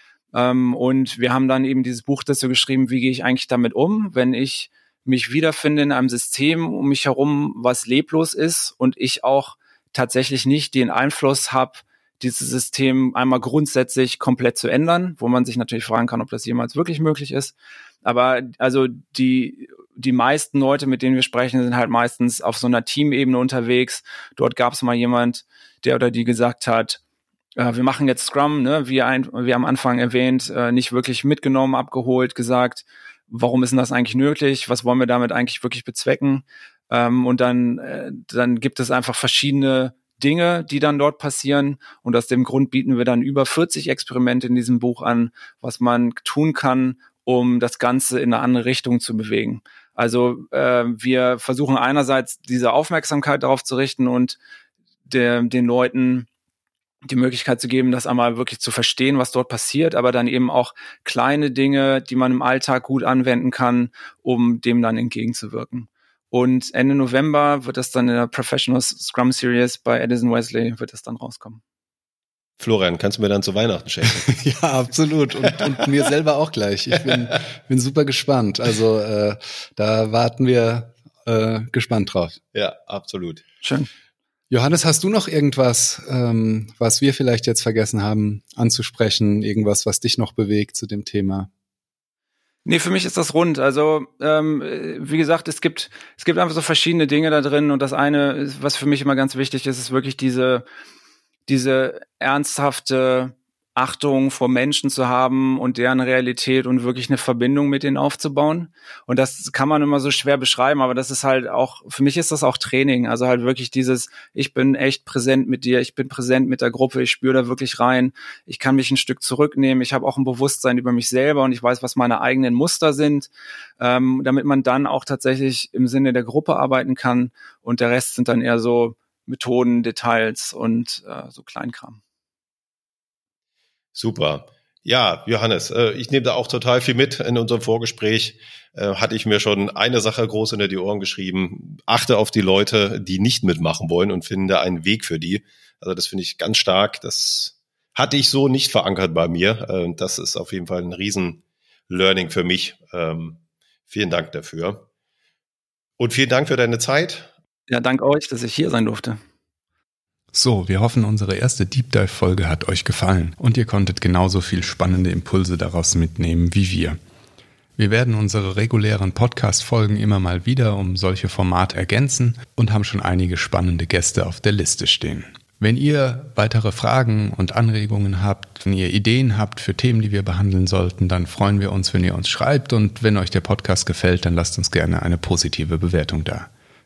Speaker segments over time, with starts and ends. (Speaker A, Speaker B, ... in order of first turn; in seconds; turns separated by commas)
Speaker A: 0.3-27.0, Speaker A: 27.6-54.4, Speaker A: 55.0-56.3, Speaker A: 57.0-71.6, Speaker B: 72.6-74.3, Speaker C: 74.2-82.4, Speaker B: 82.5-83.4, Speaker A: 83.6-83.9, Speaker C: 84.5-91.5, Speaker A: 92.6-100.6, Speaker A: 101.5-123.3, Speaker A: 123.8-132.0, Speaker B: 133.9-154.8, Speaker B: 156.0-157.3, Speaker A: 157.7-159.2, Speaker C: 160.3-167.0, Speaker C: 167.8-186.5